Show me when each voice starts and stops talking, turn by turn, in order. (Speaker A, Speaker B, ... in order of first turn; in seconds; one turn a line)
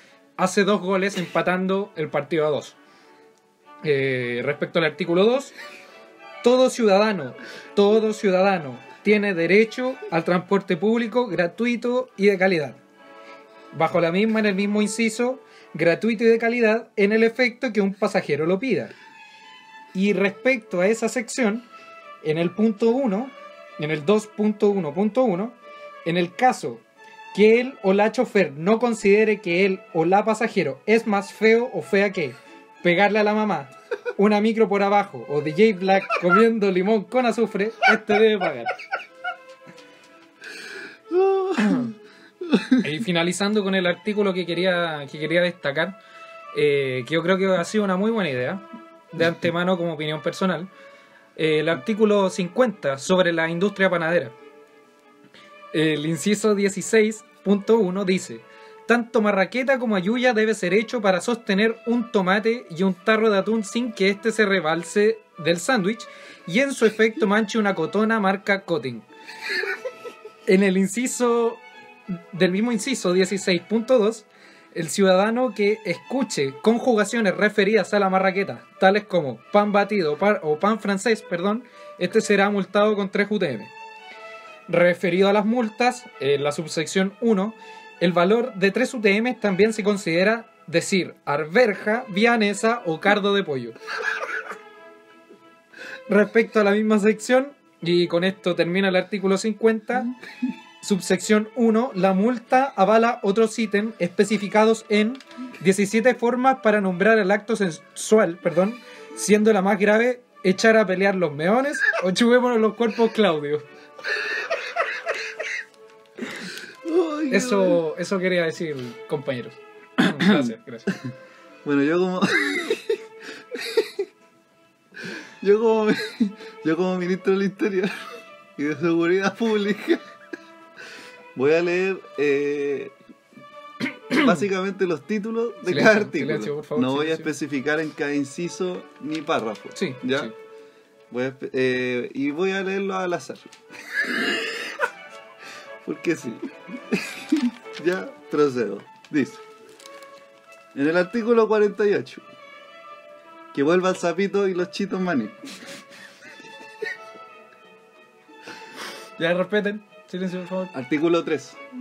Speaker A: 0.4-2.8
Speaker A: 3.8-5.5
Speaker A: 6.4-12.8
Speaker A: 13.7-18.9
Speaker A: 19.9-21.7
Speaker A: 22.2-38.7
Speaker B: 41.1-41.9
Speaker B: 42.5-42.8
Speaker A: 42.8-46.0
Speaker A: 46.5-50.7
Speaker A: 51.4-54.4
Speaker A: 55.7-69.1
Speaker A: 70.5-71.6
Speaker A: 72.3-83.7
Speaker A: 84.7-93.8
Speaker A: 96.1-100.1
Speaker A: 100.8-113.7
Speaker B: 116.8-117.8
Speaker A: 117.3-120.9
Speaker B: 120.2-121.0
Speaker B: 121.7-123.0
Speaker B: 123.5-124.0
Speaker B: 125.4-128.0
Speaker B: 128.6-130.0
Speaker B: 131.3-133.0
Speaker B: 134.1-140.3
Speaker A: 135.7-137.3
Speaker A: 139.8-140.3
Speaker B: 141.1-144.8
Speaker B: 145.8-149.4
Speaker B: 150.8-152.2
Speaker B: 153.5-155.4
Speaker A: 159.2-160.7
Speaker B: 160.7-161.6